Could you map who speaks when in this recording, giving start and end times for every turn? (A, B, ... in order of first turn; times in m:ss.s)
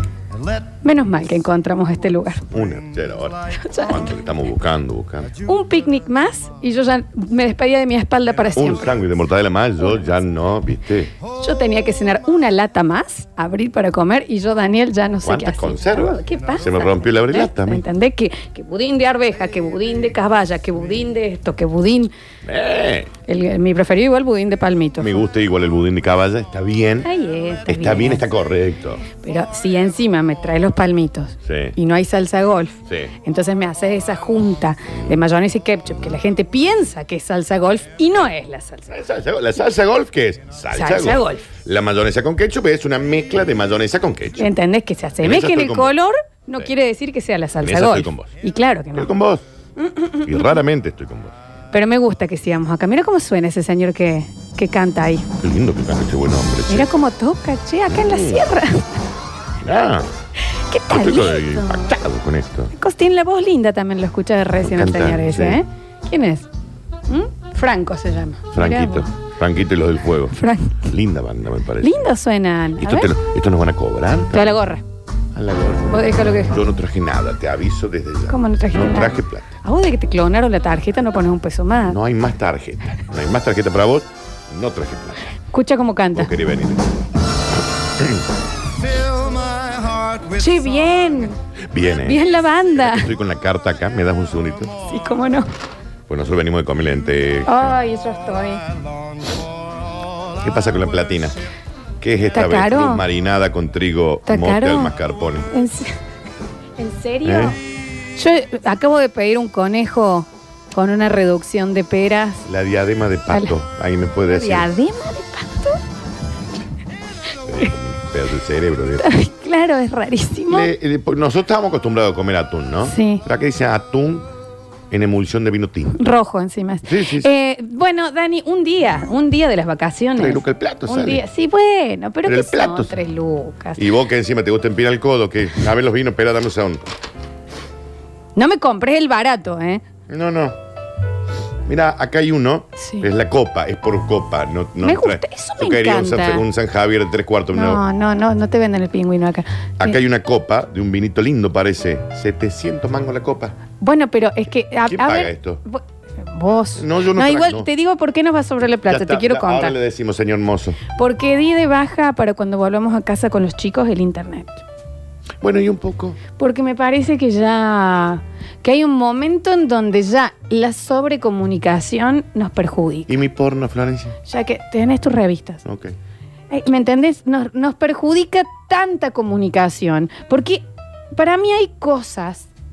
0:00.3-0:01.5 A
0:00.8-0:02.4 B
0:02.5-0:04.0 A
0:02.5-0:05.3 C
0:03.6-0:04.1 B
0:05.2-0:06.0 A
0:05.4-0:09.0 B
0:08.5-0:09.1 A
0:08.6-0:11.1 C
0:11.4-0:22.1 B
0:15.2-0:17.8 C
0:16.4-0:16.6 A
0:22.4-0:23.1 C
0:23.3-0:25.2 B
0:25.0-0:27.1 C
0:27.0-0:28.2 B
0:27.6-0:29.0 C
0:29.2-0:38.9 B
0:31.4-0:31.8 C
0:32.9-0:33.1 C
0:38.9-0:44.5 C
0:40.7-0:41.5 B
0:44.4-0:49.1 B
0:45.2-0:45.9 C
0:47.6-0:48.3 C
0:48.9-0:49.4 C
0:49.8-0:50.6 B
0:50.2-0:51.3 C
0:51.7-0:55.3 B
0:55.4-0:56.9 C
0:56.7-0:59.0 B
0:57.9-0:58.6 C
0:59.6-1:00.1 C
1:00.6-1:01.9 B
1:00.9-1:02.7 C
1:02.7-1:06.5 B
1:04.6-1:05.6 C
1:07.1-1:09.1 B
1:08.5-1:10.3 C
1:10.3-1:10.9 B
1:10.9-1:12.1 C
1:11.8-1:13.1 B
1:12.8-1:14.5 C
1:14.3-1:14.8 B
1:15.3-1:19.5 C
1:15.9-1:16.6 B
1:18.3-1:22.0 B
1:21.8-1:25.3 C
1:25.5-1:26.3 B
1:26.1-1:27.1 C
1:28.0-1:28.2 C
1:28.8-1:31.2 A
1:30.4-1:31.4 B
1:31.7-1:32.2 C
1:32.0-1:33.1 B
1:32.7-1:34.7 C
1:34.9-1:35.5 B
1:36.1-1:37.8 C
1:37.4-1:38.6 B
1:38.5-1:41.1 A
1:40.4-1:41.4 C
1:42.0-1:45.5 C
1:42.3-1:43.0 B
1:44.3-1:45.0 B
1:45.5-1:45.9 B
1:46.8-1:47.6 B
1:47.2-1:47.6 C
1:48.1-1:52.4 B
1:52.4-1:54.7 C
1:54.3-1:55.8 B
1:57.5-1:59.1 C
1:59.0-2:00.7 B
2:00.5-2:04.3 C
2:02.8-2:03.2 B
2:04.9-2:06.0 C
2:06.0-2:13.8 B
2:06.8-2:07.3 C
2:10.2-2:11.2 C
2:12.2-2:13.0 C
2:13.8-2:16.8 C
2:18.4-2:19.8 B
2:20.1-2:20.6 C
2:21.6-2:27.8 C
2:22.8-2:23.1 B
2:24.8-2:26.4 B
2:27.5-2:30.0 B
2:29.8-2:33.6 C
2:33.8-2:39.8 B
2:34.8-2:35.6 C
2:36.8-2:37.7 C
2:38.8-2:40.8 C
2:40.9-2:44.6 B
2:45.4-2:46.2 C
2:46.4-2:53.1 B
2:53.1-2:54.2 C
2:54.2-2:55.6 B
2:55.6-2:55.9 C
2:56.5-3:02.5 B